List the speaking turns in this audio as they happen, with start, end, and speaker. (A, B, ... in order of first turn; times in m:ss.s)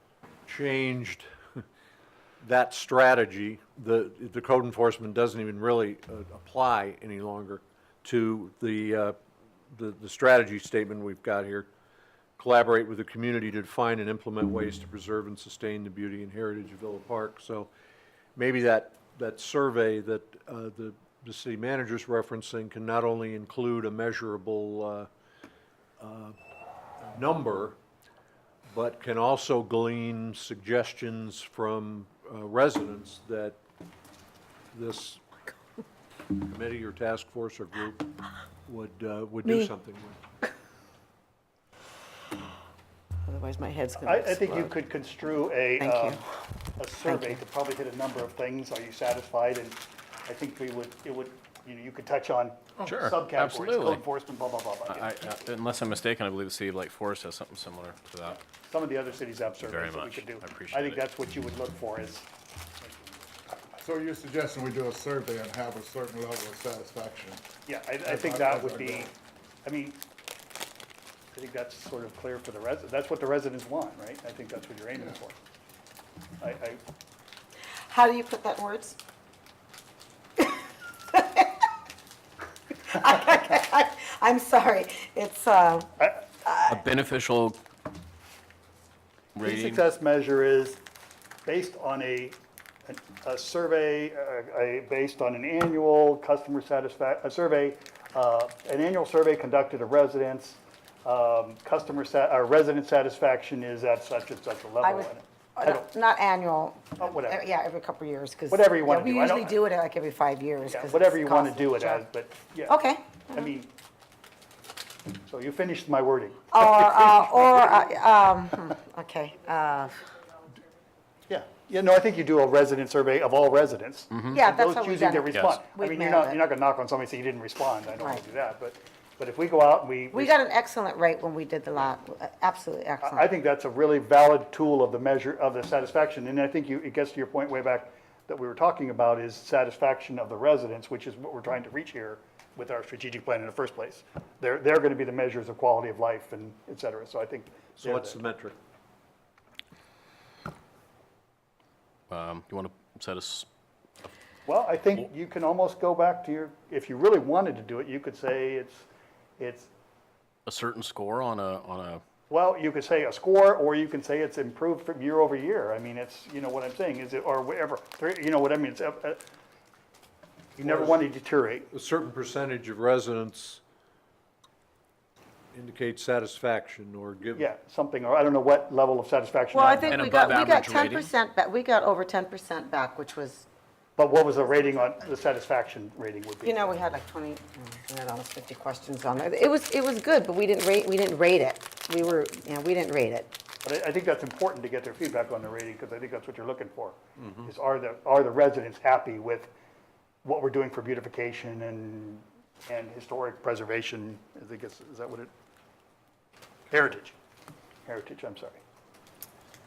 0:00.5-0:01.6 A
0:02.4-0:09.2 A
0:09.7-0:11.7 A
0:12.4-0:17.7 A
0:18.4-0:25.1 A
0:26.0-0:26.4 A
0:27.0-0:27.8 A
0:28.7-0:33.6 A
0:34.7-0:35.2 A
0:36.3-0:40.2 A
0:43.2-0:44.8 B
0:44.0-0:46.2 C
0:45.8-0:46.2 B
0:46.8-0:55.3 C
0:47.0-0:47.4 B
0:52.8-0:54.0 D
0:54.9-0:58.4 D
0:58.6-1:02.3 C
0:59.6-1:01.0 D
1:02.8-1:03.2 C
1:03.8-1:07.5 E
1:07.6-1:09.1 C
1:08.0-1:09.0 E
1:09.6-1:10.0 C
1:11.3-1:15.3 C
1:16.4-1:16.8 C
1:17.9-1:19.0 B
1:21.1-1:21.6 B
1:22.8-1:26.8 B
1:26.7-1:27.6 D
1:29.4-1:29.8 D
1:29.4-1:30.8 C
1:31.4-1:45.8 C
1:44.8-1:52.0 B
1:47.0-1:47.4 C
1:48.5-1:49.6 C
1:50.6-1:52.8 C
1:52.7-1:53.5 B
1:53.3-1:53.7 C
1:55.2-1:57.8 C
1:56.5-2:00.1 B
2:01.3-2:10.3 C
2:04.1-2:04.4 D
2:04.3-2:06.4 B
2:10.1-2:13.3 B
2:13.0-2:28.2 C
2:27.8-2:28.6 A
2:32.1-2:33.5 D
2:34.4-2:38.8 C
2:39.4-2:39.7 C
2:40.4-2:42.0 D
2:42.3-2:49.2 C
2:50.6-2:51.7 C
2:50.6-2:51.0 A
2:51.7-2:53.6 A
2:55.5-2:57.4 A
2:57.4-3:00.0 C
2:59.5-3:03.4 B
2:59.8-3:01.1 D
3:04.0-3:06.8 C
3:06.4-3:13.3 B
3:13.6-3:19.5 C
3:20.2-3:25.3 C
3:26.7-3:27.1 C
3:27.8-3:28.6 C